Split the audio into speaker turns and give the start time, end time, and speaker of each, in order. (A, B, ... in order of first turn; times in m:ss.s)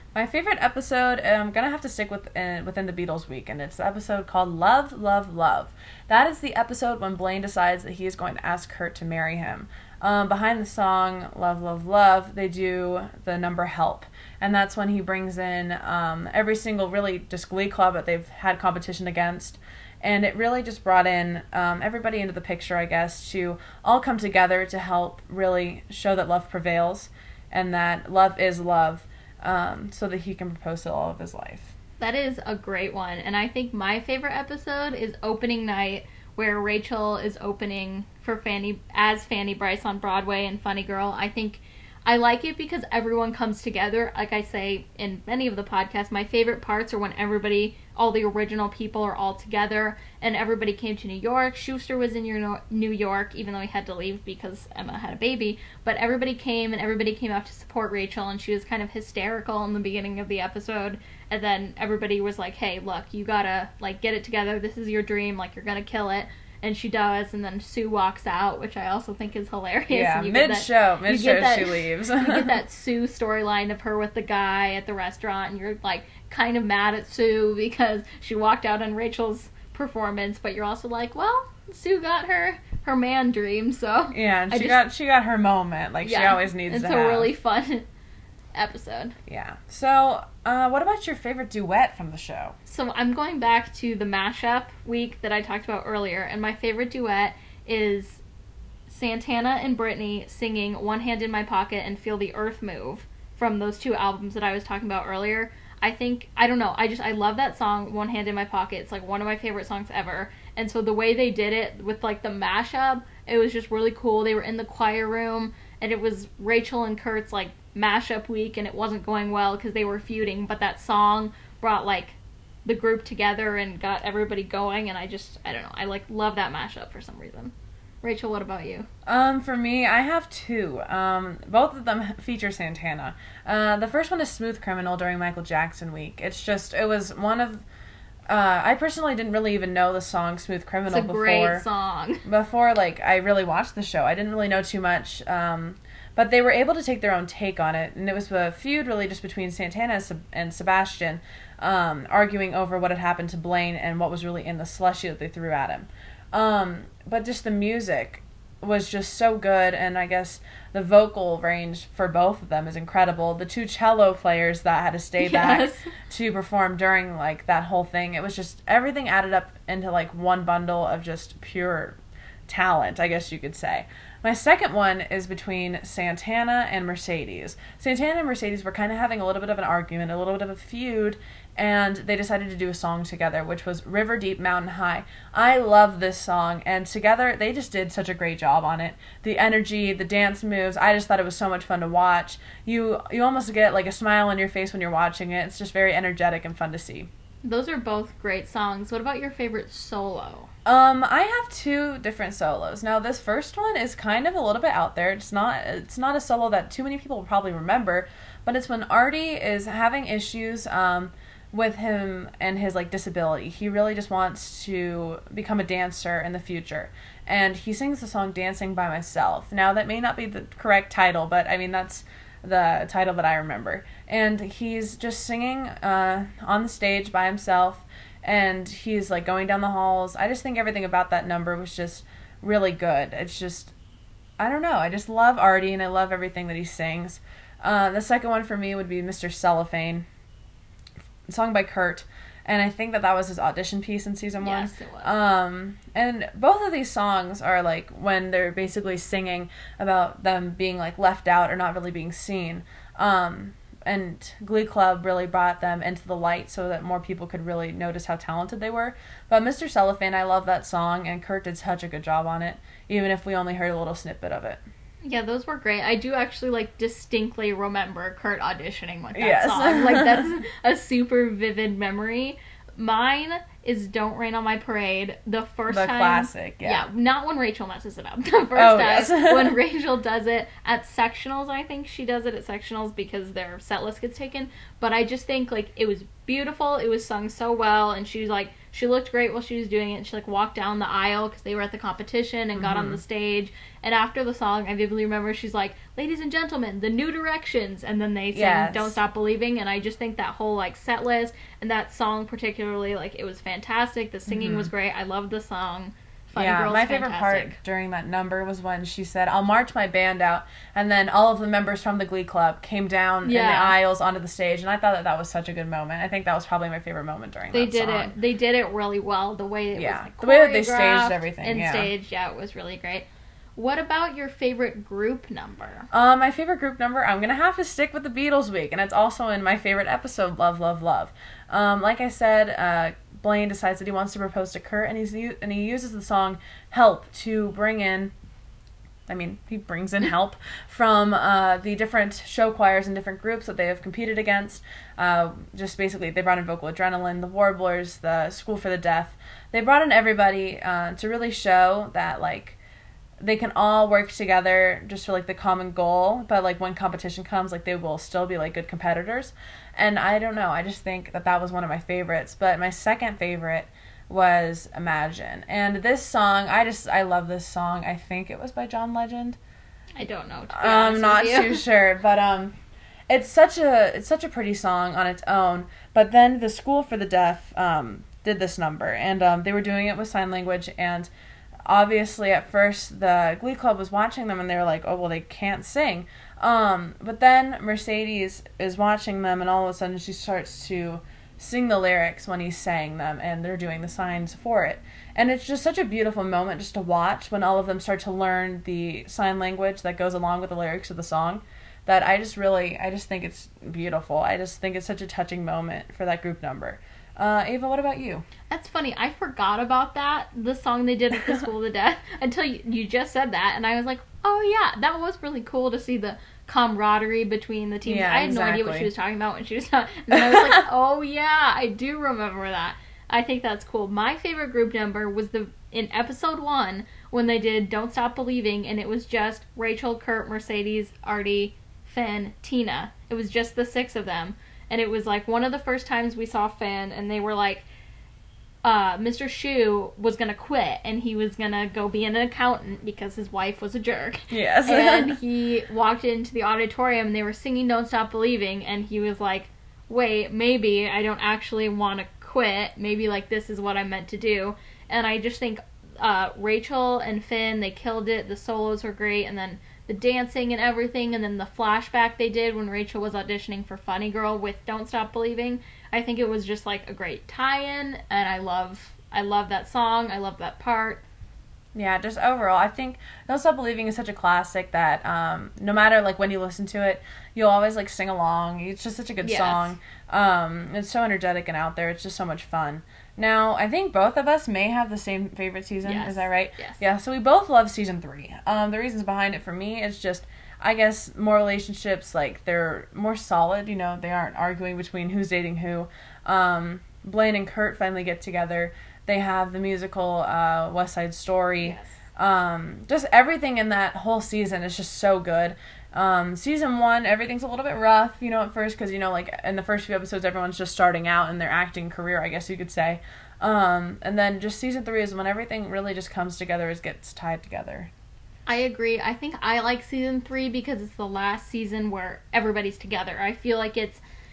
0:00.1-0:31.7 A
0:32.0-1:24.8 B
1:09.9-1:12.5 A
1:24.1-1:27.3 A
1:26.0-1:27.9 B
1:28.5-1:29.1 B
1:29.3-1:32.5 A
1:32.7-1:38.2 B
1:38.9-2:08.9 B
2:09.0-2:17.6 A
2:18.3-2:21.6 A
2:20.9-2:22.2 B
2:22.2-2:52.0 A
2:45.2-2:45.9 B
2:52.5-3:17.1 A
3:17.4-3:20.5 B
3:20.6-3:53.7 A
3:54.4-4:00.0 A
4:01.3-4:24.6 A
4:04.4-4:05.1 B
4:25.0-5:07.6 B
4:29.1-4:30.3 A
4:35.7-4:36.8 A
4:38.5-4:39.6 A
4:52.5-4:53.0 A
4:58.3-4:59.0 A
5:04.3-5:04.7 A
5:06.3-5:18.1 A
5:13.2-5:13.8 B
5:17.5-5:25.9 B
5:19.7-5:21.9 A
5:25.9-5:38.1 A
5:39.1-5:52.6 A
5:53.2-6:09.4 A
6:10.0-6:11.6 B
6:10.5-6:12.5 A
6:13.1-6:21.1 A
6:21.7-6:48.2 A
6:48.5-7:17.6 B
6:57.8-6:58.9 A
7:00.1-7:00.5 A
7:18.6-7:51.0 B
7:24.3-7:25.2 A
7:51.7-8:37.9 A
7:59.2-7:59.8 B
8:05.8-8:06.8 B
8:21.6-8:22.0 B
8:38.4-8:44.0 B